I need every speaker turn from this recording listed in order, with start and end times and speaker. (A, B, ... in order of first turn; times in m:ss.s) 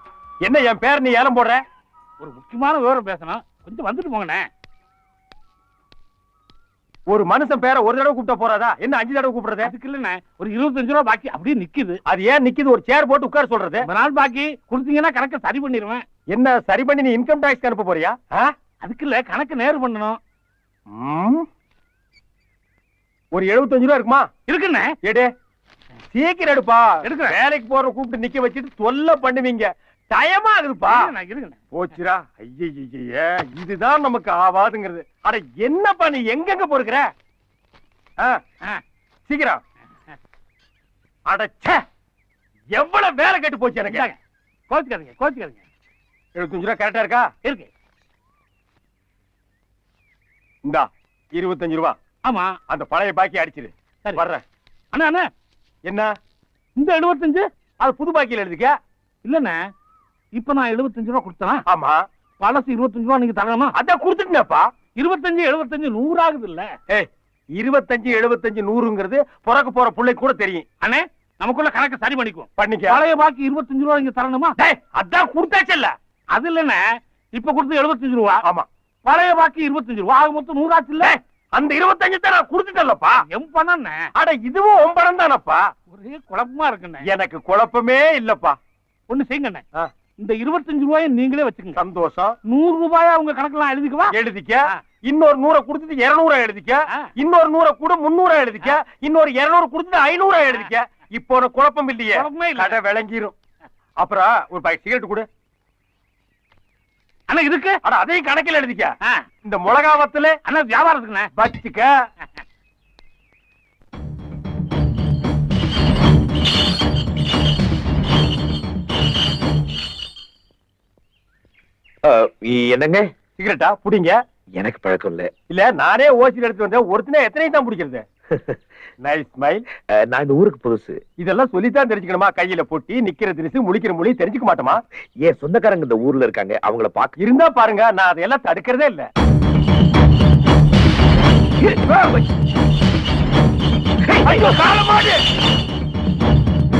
0:00.4-0:01.6 A
0:02.2-0:04.5 B
0:07.1-0:09.7 A
0:09.6-0:12.0 B
0:12.1-0:13.8 A
0:13.8-0:16.0 B
0:16.3-0:18.5 A
0:18.8-0:20.2 B
0:20.9-0:21.4 A
0:23.3-0:24.2 A
0:24.5-0:24.9 B
0:26.1-0:31.1 A
0:27.0-0:27.4 B
0:30.9-0:31.6 B
0:31.7-0:37.0 A
0:39.3-0:39.6 A
0:41.3-0:41.8 A
0:42.7-0:44.1 A
0:43.9-0:44.2 B
0:44.7-0:45.6 B
0:46.4-0:47.3 A
0:50.6-0:52.0 A
0:52.2-0:52.5 B
0:52.7-0:54.4 A
0:54.9-0:55.3 B
0:56.8-0:57.5 B
0:57.8-0:58.7 A
0:59.2-0:59.6 B
1:00.3-1:01.6 B
1:01.7-1:02.0 A
1:02.4-1:03.7 B
1:03.8-1:04.6 A
1:05.0-1:06.7 B
1:06.9-1:10.6 A
1:10.8-1:14.6 B
1:12.6-1:13.0 A
1:14.6-1:15.9 A
1:16.3-1:18.4 B
1:19.0-1:21.1 B
1:21.0-1:23.2 A
1:23.2-1:24.0 B
1:24.2-1:25.6 A
1:25.9-1:27.0 B
1:27.0-1:28.6 A
1:29.1-1:29.6 B
1:30.2-1:31.8 B
1:31.8-1:32.3 A
1:32.4-1:34.1 B
1:34.1-1:43.3 A
1:42.1-1:42.8 B
1:44.0-1:45.2 A
1:47.3-1:47.8 B
1:47.8-1:48.9 A
1:49.4-1:50.4 A
1:50.4-1:51.3 B
1:51.4-1:51.9 A
2:02.1-2:03.0 C
2:03.4-2:04.2 A
2:04.6-2:05.3 C
2:05.5-2:08.0 A
2:09.0-2:09.6 A
2:10.1-2:11.0 C
2:11.2-2:14.8 A
2:15.2-2:17.1 C
2:17.2-2:19.0 A
2:24.1-2:24.4 C
2:24.2-2:25.2 A